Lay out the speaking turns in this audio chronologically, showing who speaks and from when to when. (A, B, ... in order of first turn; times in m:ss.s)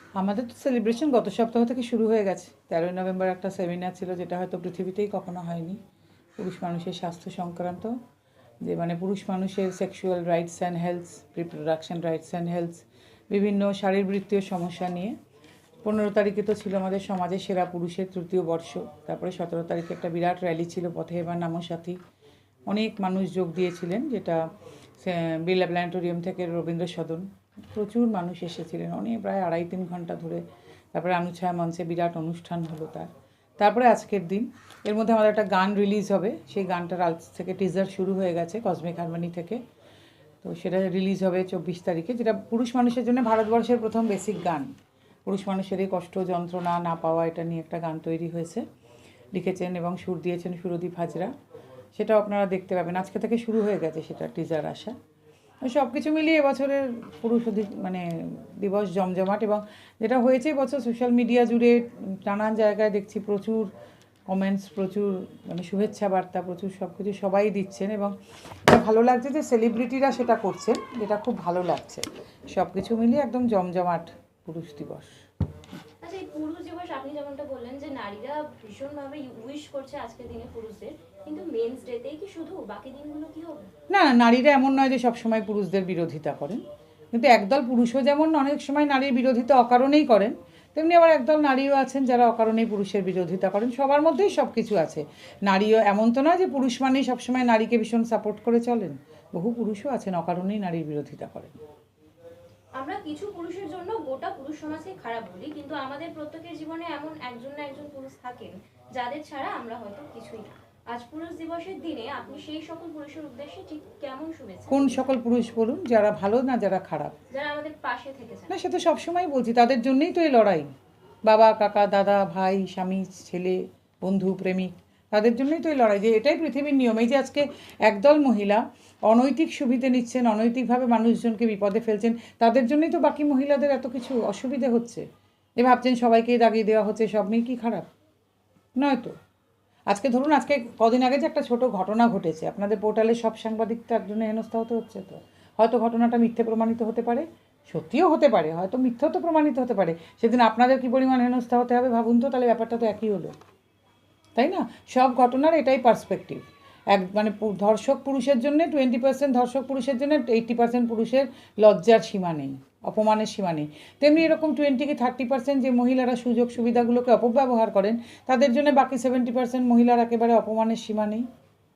0:00.2-0:05.8 A
0:06.4-0:07.9 A
0:08.6-0:15.1 A
0:15.8-0:22.0 A
0:22.7-0:24.4 A
0:25.0-0:39.6 A
0:40.4-0:44.7 A
0:45.2-0:48.6 A
0:49.3-0:51.3 A
0:51.9-0:54.9 A
0:55.6-1:03.7 A
1:04.3-1:08.1 A
1:08.7-1:15.2 A
1:16.0-1:23.6 B
1:23.9-1:41.5 A
1:42.8-1:55.1 B
1:54.7-1:57.2 A
1:57.3-1:58.6 B
1:58.5-2:00.7 A
2:01.2-2:15.0 A
2:15.6-2:17.9 A
2:18.8-2:19.1 A
2:19.9-2:33.3 A
2:34.4-2:51.2 A